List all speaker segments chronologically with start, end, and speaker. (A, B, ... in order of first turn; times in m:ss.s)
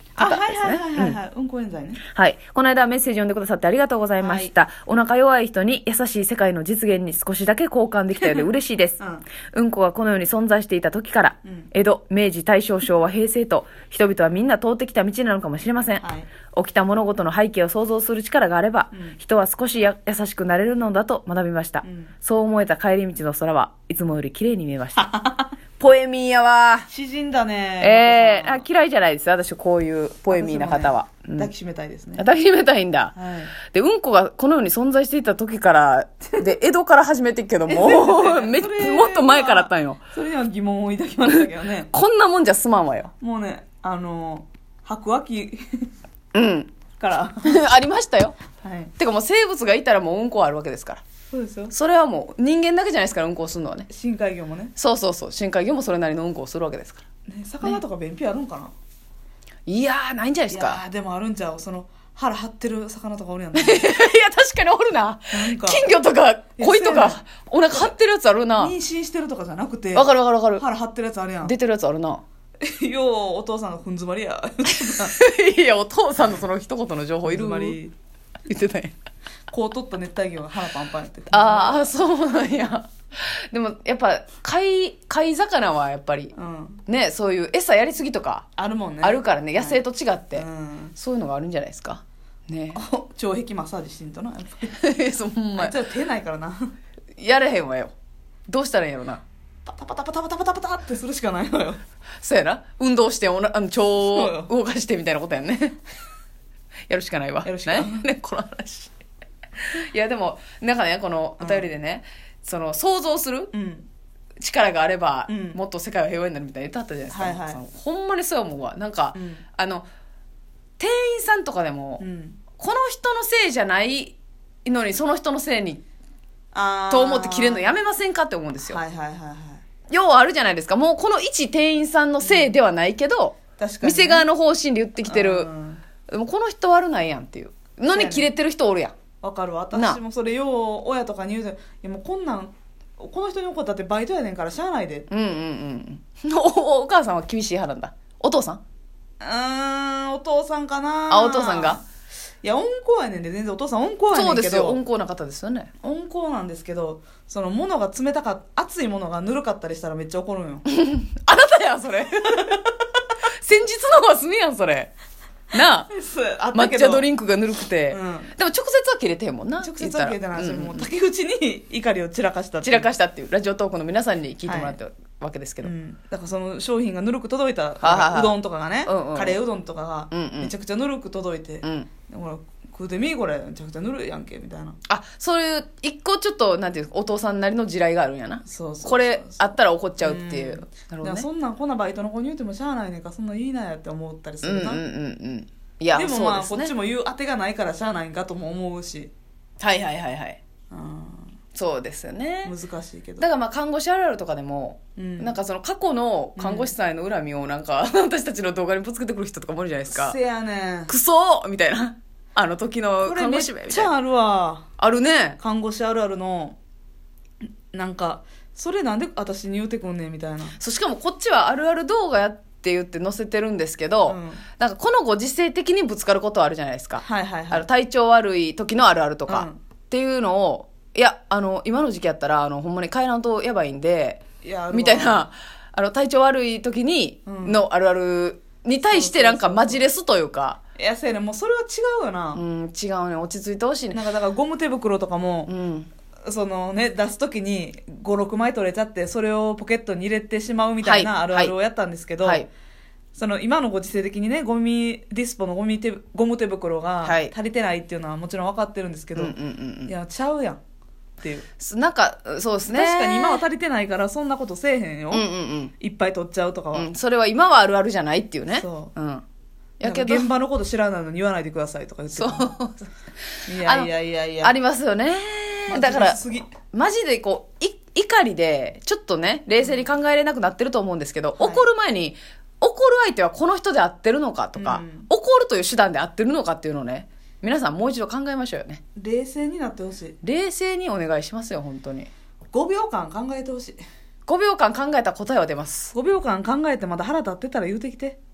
0:00.2-0:02.0 A
0:00.2-0:01.2 B
0:02.0-0:25.1 B
0:04.2-0:04.5 A
0:08.2-0:08.5 A
0:09.0-0:09.2 A
0:16.0-0:16.3 A
0:21.8-0:22.1 A
0:25.0-0:25.5 A
0:25.8-0:26.9 B
0:26.9-0:28.6 A
0:27.8-0:31.5 B
0:30.3-0:32.2 A
0:32.2-0:40.0 B
0:33.2-0:33.5 A
0:37.7-0:41.9 A
0:41.3-0:43.1 B
0:43.2-0:45.9 A
0:46.3-0:46.7 B
0:47.0-0:47.6 A
0:47.4-0:48.4 B
0:48.6-0:48.9 A
0:49.0-0:51.0 B
0:51.3-0:51.7 A
0:51.7-0:53.9 B
0:53.9-0:54.7 A
0:54.8-0:57.0 B
0:57.3-0:58.7 A
0:59.7-1:00.8 B
1:00.5-1:03.9 A
1:03.5-1:08.7 B
1:05.3-1:05.8 A
1:06.6-1:07.2 A
1:08.6-1:11.5 A
1:09.9-1:10.6 B
1:11.4-1:12.2 B
1:12.6-1:15.1 A
1:14.7-1:17.8 B
1:17.2-1:17.9 A
1:18.4-1:18.9 B
1:19.5-1:21.9 A
1:21.3-1:26.3 B
1:26.3-1:26.8 A
1:26.9-1:28.5 B
1:28.6-1:29.8 A
1:29.0-1:32.8 B
1:30.3-1:30.9 A
1:32.7-1:34.8 A
1:34.7-1:35.8 B
1:35.6-1:36.7 A
1:37.2-1:37.9 B
1:38.5-1:39.2 B
1:39.6-1:41.8 A
1:42.2-1:45.8 B
1:44.0-1:44.5 A
1:46.9-1:48.9 B
1:47.4-1:48.1 A
1:49.6-1:53.5 B
1:51.4-1:51.7 A
1:53.5-1:53.8 A
1:54.4-1:59.8 B
1:55.3-1:55.6 A
1:57.1-1:57.6 A
1:59.1-1:59.4 A
2:00.8-2:02.0 B
2:02.0-2:02.4 A
2:02.6-2:05.8 B
2:06.5-2:07.8 A
2:06.9-2:08.8 B
2:08.7-2:09.6 A
2:09.9-2:15.5 B
2:12.2-2:12.5 A
2:13.6-2:14.3 A
2:15.0-2:15.8 A
2:16.1-2:18.9 B
2:17.9-2:18.3 A
2:19.2-2:25.1 A
2:19.7-2:20.0 B
2:25.1-2:28.6 B
2:29.2-2:31.8 A
2:31.1-2:31.8 B
2:32.4-2:34.8 A
2:34.1-2:35.7 B
2:35.8-2:40.6 A
2:40.7-2:42.7 B
2:43.4-2:44.9 B
2:45.5-2:45.9 B
2:45.9-2:47.1 A
2:46.5-2:50.9 B
2:47.9-2:48.3 A
2:49.6-2:52.9 A
2:52.6-2:55.7 B
2:54.4-2:54.8 A
2:55.6-3:04.8 A
2:57.8-2:59.4 B
3:00.1-3:00.5 B
3:01.6-3:01.9 B
3:04.9-3:11.3 B
3:08.4-3:09.5 A
3:10.0-3:14.8 A
3:14.4-3:16.7 B
3:15.9-3:19.1 A
3:19.6-3:20.4 B
3:20.7-3:21.3 A
3:21.5-3:22.5 B
3:22.4-3:23.3 A
3:23.2-3:30.2 B
3:25.0-3:25.4 A
3:26.4-3:26.7 A
3:29.9-3:30.9 A
3:30.9-3:33.9 B
3:33.0-3:34.7 A
3:34.8-3:35.4 B
3:35.4-3:36.6 A
3:37.7-3:40.6 A
3:40.6-4:00.6 B
3:44.1-3:44.4 A
3:47.0-3:47.6 A
3:49.3-3:49.6 A
3:54.4-3:55.2 A
3:57.2-3:57.6 A
3:58.9-3:59.8 A
4:00.8-4:02.4 A
4:02.3-4:04.0 B
4:03.9-4:05.5 A
4:05.5-4:05.9 B
4:06.2-4:12.4 A
4:10.8-4:11.5 B
4:12.2-4:12.5 B
4:13.1-4:20.6 A
4:17.0-4:17.3 B
4:19.2-4:19.9 B
4:21.2-4:21.4 A
4:21.6-4:23.4 B
4:22.7-4:25.3 A
4:25.1-4:25.7 B
4:25.8-4:26.9 A
4:26.7-4:29.2 B
4:28.5-4:28.9 A
4:29.8-4:30.3 B
4:29.8-4:32.6 A
4:32.1-4:32.9 B
4:33.5-4:34.6 A
4:33.6-4:33.9 B
4:34.4-4:48.8 B
4:35.7-4:36.5 A
4:39.6-4:39.8 A
4:41.4-4:41.7 A
4:44.5-4:45.1 A
4:49.0-4:50.2 A
4:50.2-4:52.1 B
4:52.5-4:53.8 A
4:54.3-4:55.9 B
4:55.9-4:58.2 A